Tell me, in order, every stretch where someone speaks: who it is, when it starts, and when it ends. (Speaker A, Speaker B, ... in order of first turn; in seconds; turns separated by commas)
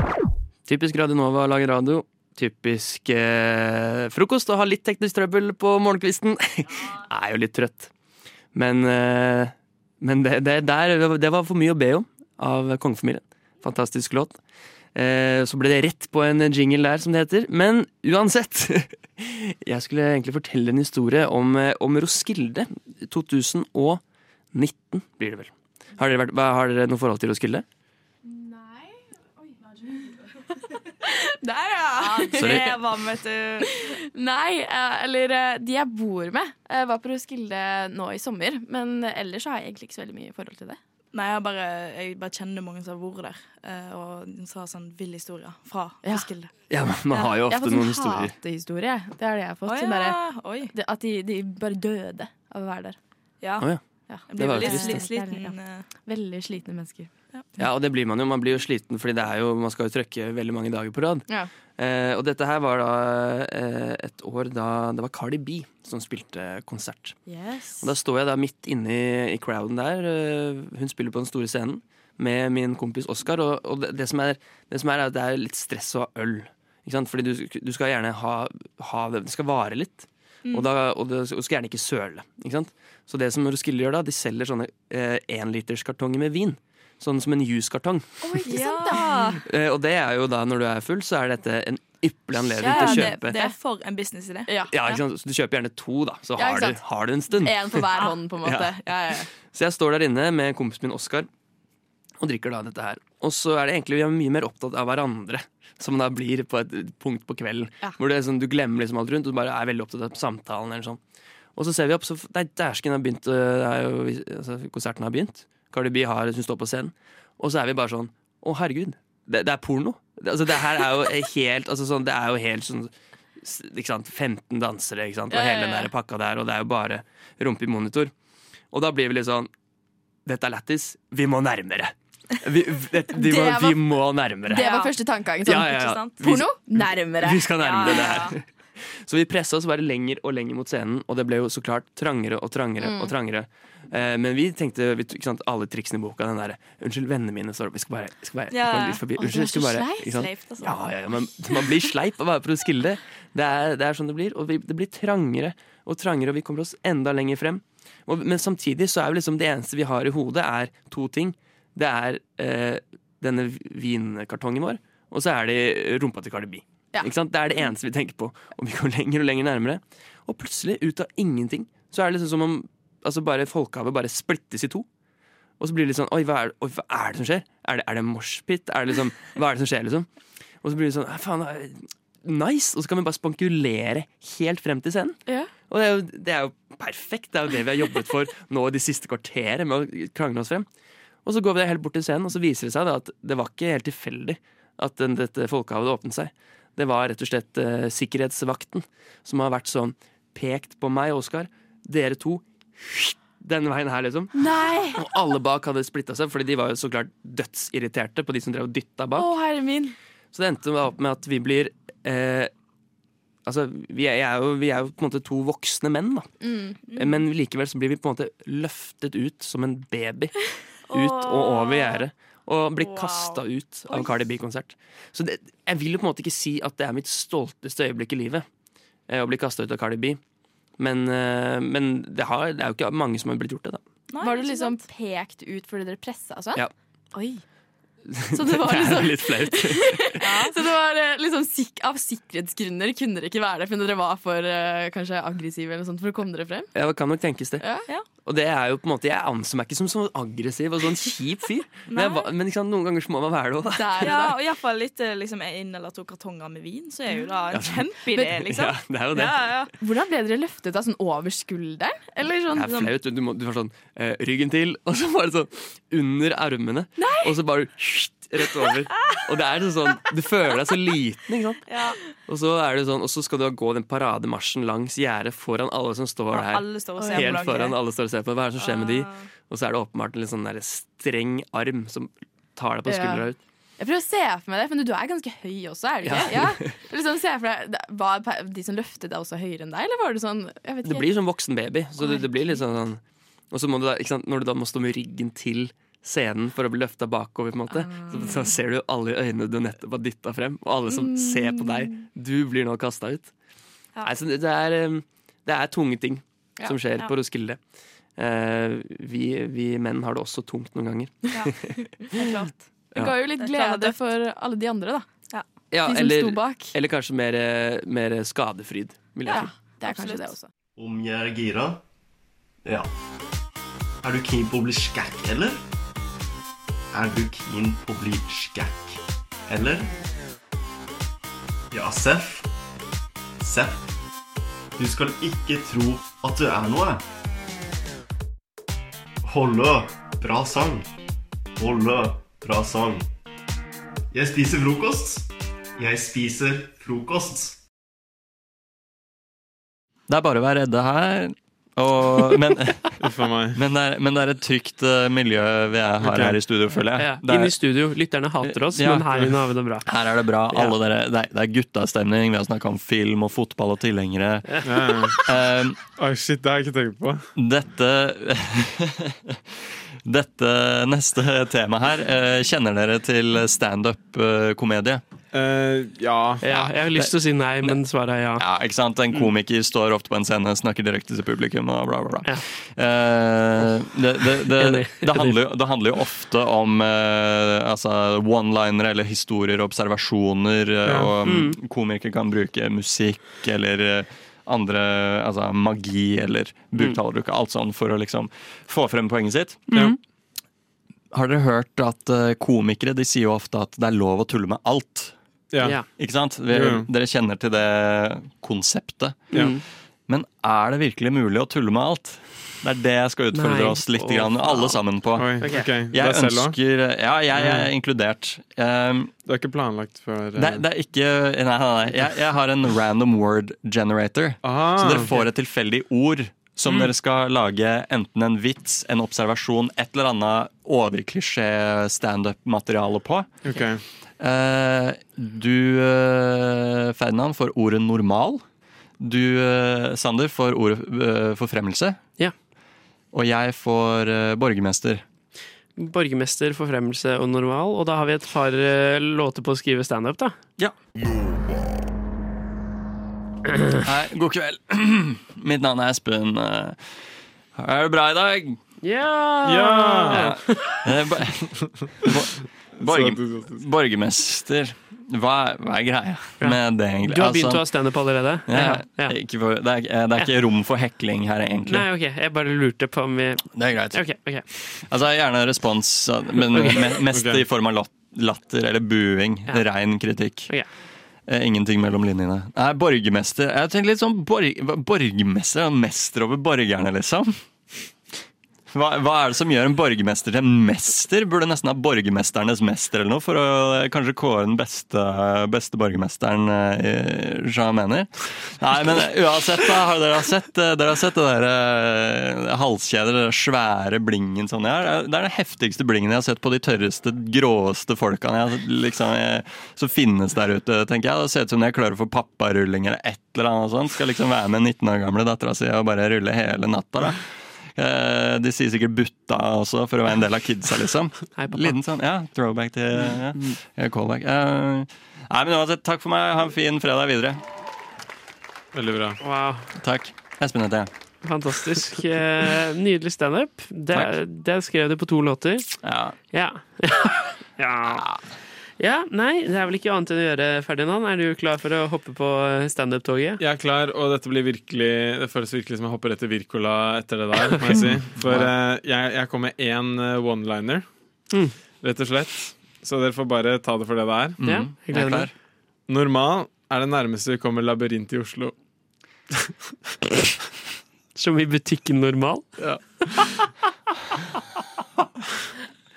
Speaker A: 0.6-7.9, Speaker A: 8.5-14.4, Speaker A: 14.9-24.0, Speaker A: 24.5-27.6, Speaker B: 28.3-28.8, Speaker B: 31.0-32.7, Speaker C: 32.0-33.7, Speaker D: 32.4-32.6, Speaker B: 33.7-40.8, Speaker C: 41.1-46.5, Speaker B: 46.0-46.3, Speaker A: 46.7-48.4, Speaker B: 47.5-50.2, Speaker C: 49.6-50.7, Speaker B: 50.7-53.0, Speaker B: 54.1-57.1, Speaker C: 54.3-55.9, Speaker A: 54.3-55.1, Speaker A: 57.6-67.2, Speaker B: 67.3-67.9, Speaker A: 67.8-88.1, Speaker B: 88.2-89.4, Speaker C: 88.5-89.4, Speaker A: 89.5-93.4, Speaker C: 92.6-94.5, Speaker B: 92.7-93.5, Speaker B: 94.5-95.0, Speaker A: 94.7-98.8, Speaker B: 96.4-99.3, Speaker A: 99.5-101.3, Speaker A: 102.2-111.0, Speaker A: 111.5-128.1, Speaker B: 125.3-125.9, Speaker A: 128.7-129.5, Speaker A: 130.3-134.8, Speaker B: 133.2-133.9, Speaker B: 134.4-138.2, Speaker C: 134.5-134.9, Speaker A: 135.4-138.4, Speaker C: 135.8-136.1, Speaker C: 137.6-138.3, Speaker A: 139.1-174.9, Speaker B: 142.8-143.1, Speaker C: 148.5-148.9, Speaker B: 149.1-150.2, Speaker C: 150.3-150.8, Speaker A: 175.6-180.1, Speaker A: 180.6-190.7, Speaker A: 191.2-209.3, Speaker B: 204.3-205.1, Speaker B: 209.2-209.9, Speaker A: 210.3-212.5, Speaker A: 213.4-216.3, Speaker B: 216.4-216.8, Speaker A: 216.9-220.3, Speaker C: 220.9-222.0, Speaker A: 220.9-228.4, Speaker C: 222.8-223.4, Speaker A: 229.1-230.2, Speaker A: 230.8-233.8, Speaker C: 234.1-234.8, Speaker B: 234.2-237.4, Speaker A: 238.1-240.4, Speaker B: 238.3-246.7, Speaker A: 246.7-247.6, Speaker B: 247.6-247.9, Speaker A: 248.2-254.3, Speaker C: 251.9-252.2, Speaker B: 253.7-254.4, Speaker C: 254.0-259.6, Speaker A: 257.5-259.7, Speaker B: 258.1-258.5, Speaker B: 259.8-262.8, Speaker A: 262.5-271.6, Speaker B: 267.0-267.4, Speaker C: 271.7-271.9, Speaker A: 272.3-283.4, Speaker C: 276.3-277.8, Speaker B: 277.0-277.5, Speaker C: 278.6-279.1, Speaker B: 282.9-283.3, Speaker B: 283.8-291.1, Speaker A: 286.0-286.8, Speaker A: 290.8-293.0, Speaker B: 292.0-292.6, Speaker A: 293.5-303.3, Speaker B: 301.0-301.7, Speaker A: 304.0-307.6, Speaker A: 308.2-313.2, Speaker C: 312.1-312.5, Speaker B: 312.9-315.1, Speaker C: 313.4-313.9, Speaker A: 315.7-319.5, Speaker B: 315.8-316.7, Speaker B: 319.3-320.5, Speaker C: 319.8-320.3, Speaker E: 320.8-321.8, Speaker E: 322.6-322.9, Speaker E: 324.0-325.6, Speaker E: 326.9-329.9, Speaker E: 331.7-332.5, Speaker E: 333.4-333.8, Speaker E: 334.8-337.0, Speaker E: 339.2-340.9, Speaker E: 341.6-343.1, Speaker E: 344.1-347.6, Speaker D: 350.1-352.9, Speaker F: 353.0-353.6, Speaker D: 353.6-357.6, Speaker F: 356.0-356.4, Speaker G: 356.9-359.8, Speaker D: 358.4-359.1, Speaker D: 359.8-364.6, Speaker G: 364.5-364.8, Speaker F: 364.6-365.2, Speaker D: 365.2-365.8, Speaker F: 365.9-367.2, Speaker D: 367.4-375.0, Speaker F: 375.3-376.4, Speaker G: 376.4-378.4, Speaker D: 376.5-377.8, Speaker D: 378.4-399.8, Speaker G: 384.4-385.4, Speaker F: 390.9-391.1, Speaker G: 391.2-391.6, Speaker G: 399.7-399.9, Speaker D: 401.1-405.1, Speaker F: 405.5-405.8, Speaker D: 405.9-409.4, Speaker F: 406.4-406.9, Speaker G: 409.3-409.6, Speaker D: 410.1-419.1, Speaker G: 413.3-414.8, Speaker F: 415.1-416.6, Speaker G: 415.4-415.7, Speaker F: 417.3-417.7, Speaker F: 419.2-420.6, Speaker D: 420.4-433.3, Speaker F: 424.4-425.1, Speaker F: 433.4-433.8, Speaker D: 434.2-438.4, Speaker D: 439.0-442.0, Speaker D: 443.1-445.1, Speaker G: 445.8-450.4, Speaker D: 453.9-457.0, Speaker D: 457.6-458.6, Speaker G: 458.8-460.8, Speaker F: 459.4-460.3, Speaker D: 460.1-461.4, Speaker D: 462.1-467.7, Speaker F: 462.8-463.6, Speaker G: 466.4-469.1, Speaker D: 468.5-471.9, Speaker G: 471.6-474.4, Speaker D: 473.5-480.5, Speaker F: 477.1-477.4, Speaker D: 481.3-487.4, Speaker D: 488.7-527.4, Speaker G: 521.4-521.8, Speaker F: 528.7-529.2, Speaker G: 529.2-529.7, Speaker D: 529.8-530.9, Speaker G: 531.2-535.7, Speaker D: 535.8-536.1, Speaker G: 536.3-538.0, Speaker D: 537.9-538.2, Speaker G: 538.8-543.4, Speaker F: 543.4-550.9, Speaker D: 547.7-548.5, Speaker G: 551.3-551.6, Speaker F: 551.8-554.4, Speaker D: 554.4-555.3, Speaker G: 554.4-555.3, Speaker F: 555.9-558.5, Speaker G: 561.1-563.3